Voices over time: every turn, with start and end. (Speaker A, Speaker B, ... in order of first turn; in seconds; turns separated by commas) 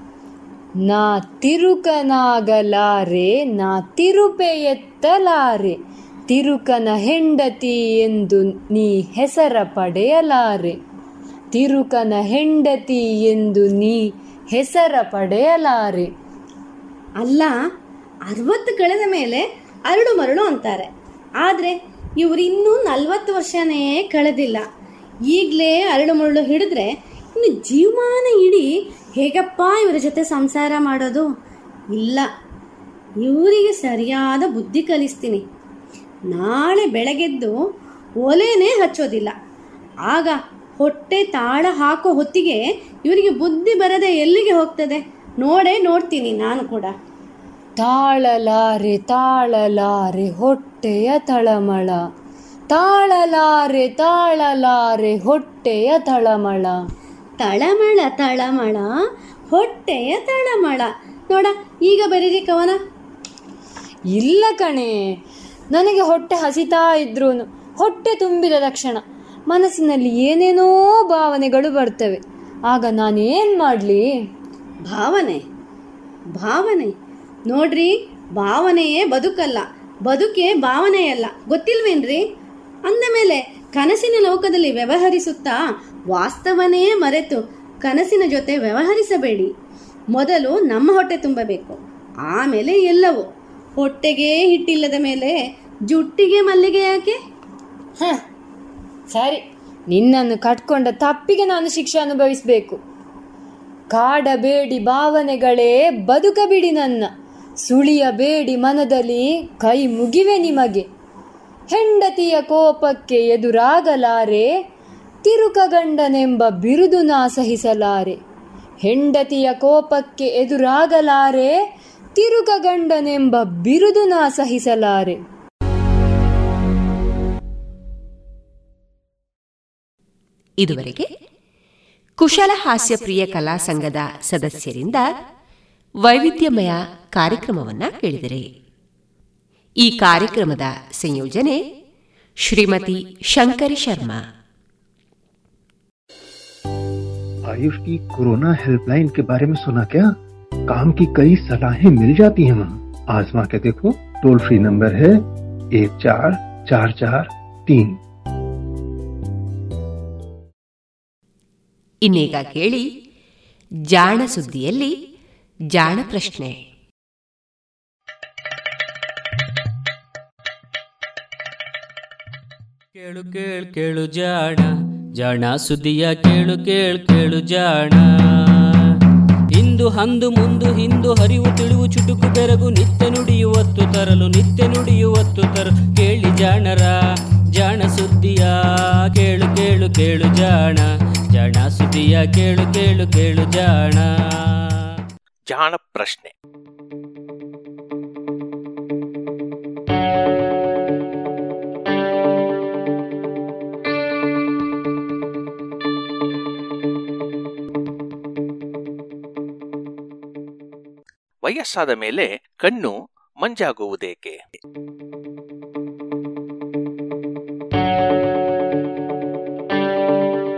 Speaker A: 0.9-5.8, Speaker A: 6.3-10.8, Speaker A: 11.5-16.1, Speaker B: 17.2-17.6, Speaker B: 18.3-20.9, Speaker B: 21.4-24.6, Speaker B: 25.3-28.7, Speaker B: 29.2-31.3, Speaker B: 31.9-32.3, Speaker B: 33.2-35.4, Speaker B: 36.3-37.6, Speaker B: 38.2-39.3, Speaker B: 40.1-46.9, Speaker A: 47.8-52.1, Speaker A: 52.7-56.8, Speaker B: 57.4-58.9, Speaker B: 59.5-62.8, Speaker A: 64.1-65.0, Speaker A: 65.7-74.1, Speaker B: 74.9-75.4, Speaker B: 76.4-76.9, Speaker B: 77.5-82.2, Speaker B: 82.9-85.6, Speaker B: 86.1-89.5, Speaker B: 90.2-93.3, Speaker B: 93.8-95.3, Speaker B: 95.9-97.2, Speaker A: 99.1-102.8, Speaker A: 103.9-107.1, Speaker A: 107.7-110.9, Speaker A: 111.7-114.5, Speaker A: 115.2-118.2, Speaker A: 118.8-121.5, Speaker A: 122.2-125.2, Speaker C: 130.6-131.1, Speaker C: 132.2-135.0, Speaker C: 136.1-138.5, Speaker C: 139.8-141.6, Speaker C: 142.4-144.2, Speaker D: 147.5-150.1, Speaker D: 150.7-155.2, Speaker D: 155.8-157.9, Speaker C: 162.1-162.8, Speaker C: 163.9-164.9, Speaker C: 165.7-166.5, Speaker E: 173.0-174.7, Speaker E: 175.2-178.0, Speaker E: 179.6-186.9, Speaker E: 187.6-188.5, Speaker E: 189.2-194.1, Speaker F: 195.5-196.3, Speaker F: 211.4-214.4